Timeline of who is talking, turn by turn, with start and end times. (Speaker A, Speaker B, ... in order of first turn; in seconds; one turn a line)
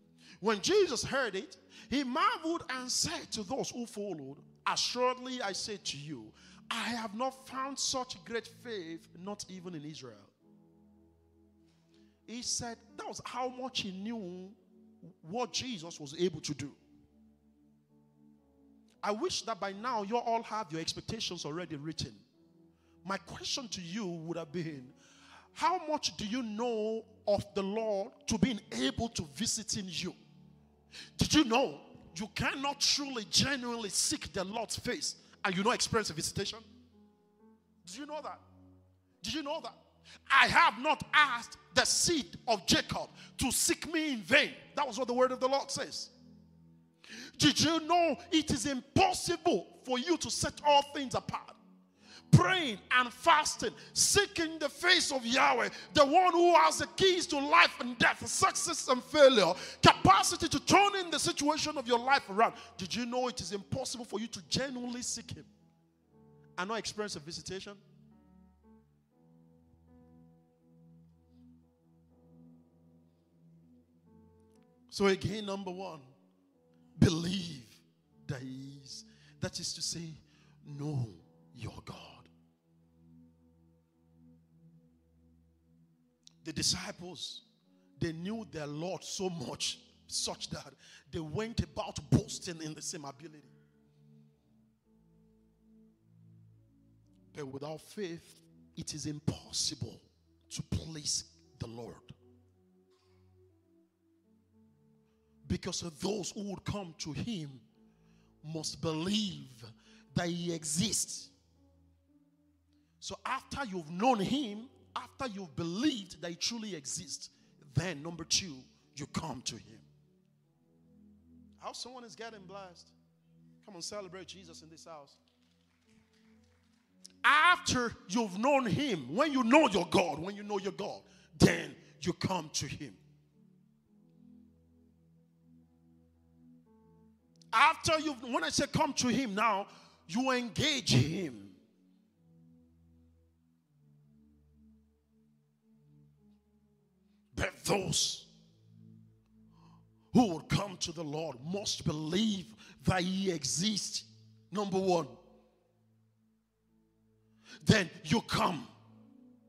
Speaker A: 0.4-10.3
Speaker A: 12.3-14.6
Speaker A: 15.2-16.8
Speaker A: 19.0-22.2
Speaker A: 23.0-24.9
Speaker A: 25.5-30.2
Speaker A: 31.2-36.6
Speaker A: 37.8-38.4
Speaker A: 39.2-39.7
Speaker A: 40.3-46.1
Speaker A: 47.3-51.6
Speaker A: 52.3-65.5
Speaker A: 66.6-67.8
Speaker A: 74.9-76.1
Speaker A: 77.0-82.3
Speaker A: 86.4-87.4
Speaker A: 88.0-93.5
Speaker A: 97.3-102.1
Speaker A: 105.4-107.6
Speaker A: 108.4-111.3
Speaker A: 113.0-119.8
Speaker A: 121.6-122.9
Speaker A: 123.6-125.2
Speaker A: 127.2-133.0
Speaker A: 137.5-141.6
Speaker A: 147.3-148.3
Speaker A: 150.1-155.2
Speaker A: 157.6-158.7